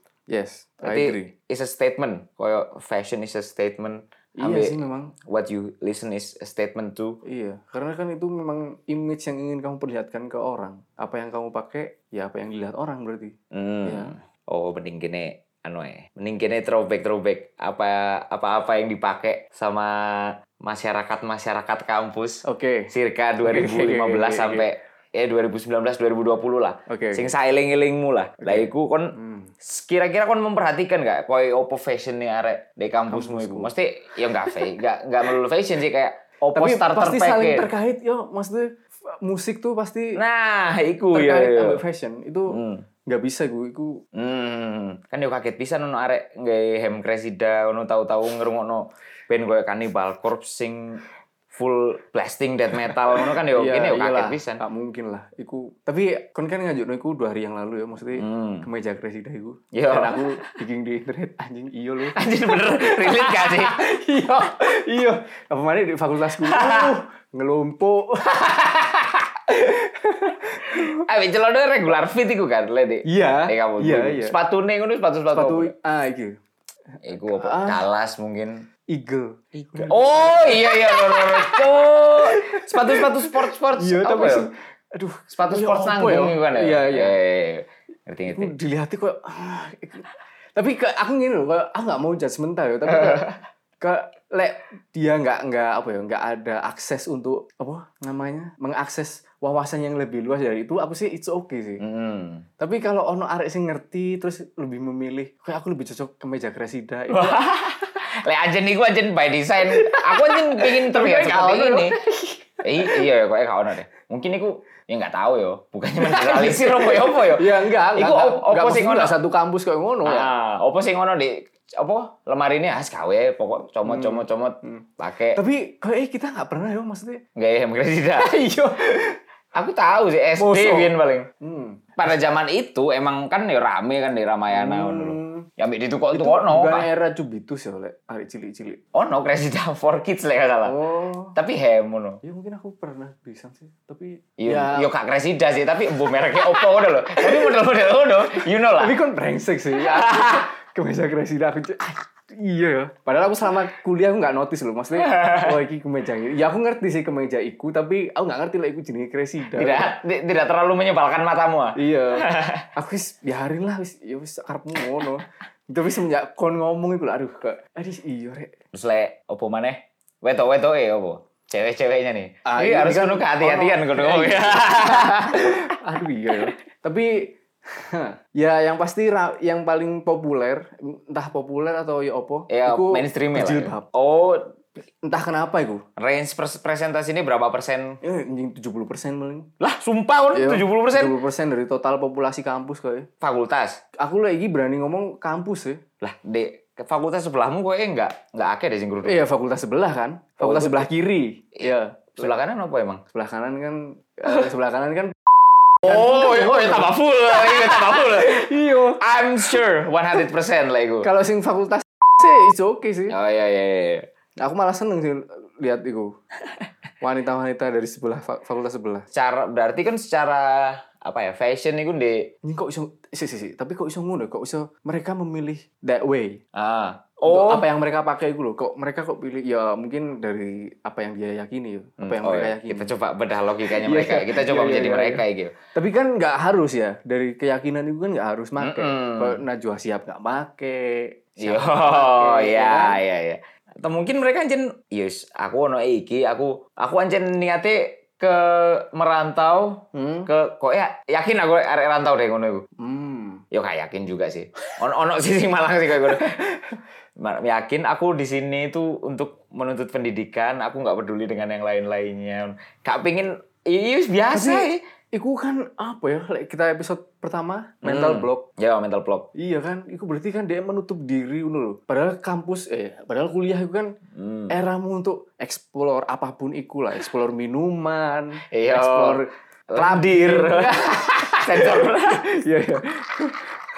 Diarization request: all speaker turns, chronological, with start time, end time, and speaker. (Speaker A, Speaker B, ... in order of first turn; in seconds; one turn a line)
Speaker A: 0.3-1.3
Speaker B: 0.8-7.2
Speaker A: 4.4-5.1
Speaker A: 7.2-14.1
Speaker B: 13.5-37.7
Speaker A: 22.4-22.9
Speaker A: 23.4-24.6
Speaker A: 26.9-27.3
Speaker A: 28.4-29.5
Speaker A: 33.1-33.7
Speaker A: 36.5-40.2
Speaker B: 40.2-41.8
Speaker A: 41.1-44.0
Speaker B: 42.5-42.8
Speaker B: 44.1-51.0
Speaker B: 51.5-54.6
Speaker A: 52.9-71.1
Speaker B: 58.2-58.7
Speaker B: 59.7-60.5
Speaker B: 62.1-63.8
Speaker B: 66.3-66.9
Speaker B: 70.7-75.7
Speaker A: 73.0-74.3
Speaker A: 75.3-76.4
Speaker B: 77.0-78.7
Speaker A: 77.1-77.8
Speaker A: 78.9-87.2
Speaker B: 79.6-84.5
Speaker B: 85.3-88.5
Speaker A: 88.2-101.8
Speaker B: 92.9-93.3
Speaker B: 101.8-102.4
Speaker A: 102.6-107.5
Speaker B: 107.1-111.9
Speaker A: 109.6-113.1
Speaker B: 112.6-119.2
Speaker A: 116.0-120.3
Speaker B: 120.0-125.4
Speaker A: 123.8-127.2
Speaker B: 127.3-128.3
Speaker A: 128.2-129.2
Speaker B: 129.5-131.3
Speaker A: 130.3-132.1
Speaker B: 132.0-136.9
Speaker A: 134.5-135.5
Speaker A: 136.1-138.8
Speaker B: 138.9-140.8
Speaker A: 140.6-141.3
Speaker B: 141.3-142.2
Speaker A: 142.2-144.9
Speaker B: 144.4-148.9
Speaker A: 148.8-159.9
Speaker B: 149.8-150.5
Speaker B: 154.9-155.6
Speaker B: 159.5-162.7
Speaker A: 161.8-168.5
Speaker B: 168.7-175.6
Speaker A: 172.4-183.8
Speaker B: 182.5-184.5
Speaker A: 185.0-185.8
Speaker B: 186.0-188.0
Speaker A: 188.0-189.5
Speaker B: 189.6-191.2
Speaker A: 190.3-193.1
Speaker B: 193.2-193.8
Speaker A: 194.0-195.8
Speaker B: 196.0-199.2
Speaker A: 199.0-202.3
Speaker B: 200.4-200.9
Speaker B: 201.6-203.0
Speaker A: 203.1-209.0
Speaker B: 205.8-211.1
Speaker A: 211.0-213.2
Speaker B: 213.1-214.1
Speaker A: 214.4-216.1
Speaker A: 217.0-219.1
Speaker B: 219.1-222.3
Speaker A: 222.4-226.4
Speaker B: 226.5-227.6
Speaker A: 227.2-232.9
Speaker B: 232.0-235.5
Speaker A: 233.7-243.0
Speaker B: 238.6-239.4
Speaker B: 241.4-252.6
Speaker A: 249.9-250.3
Speaker A: 252.8-253.4
Speaker B: 253.5-256.4
Speaker A: 256.1-256.7
Speaker B: 257.2-264.8
Speaker A: 264.3-268.4
Speaker B: 267.8-269.3
Speaker A: 269.3-273.9
Speaker B: 274.1-274.5
Speaker A: 274.5-283.6
Speaker B: 278.5-282.3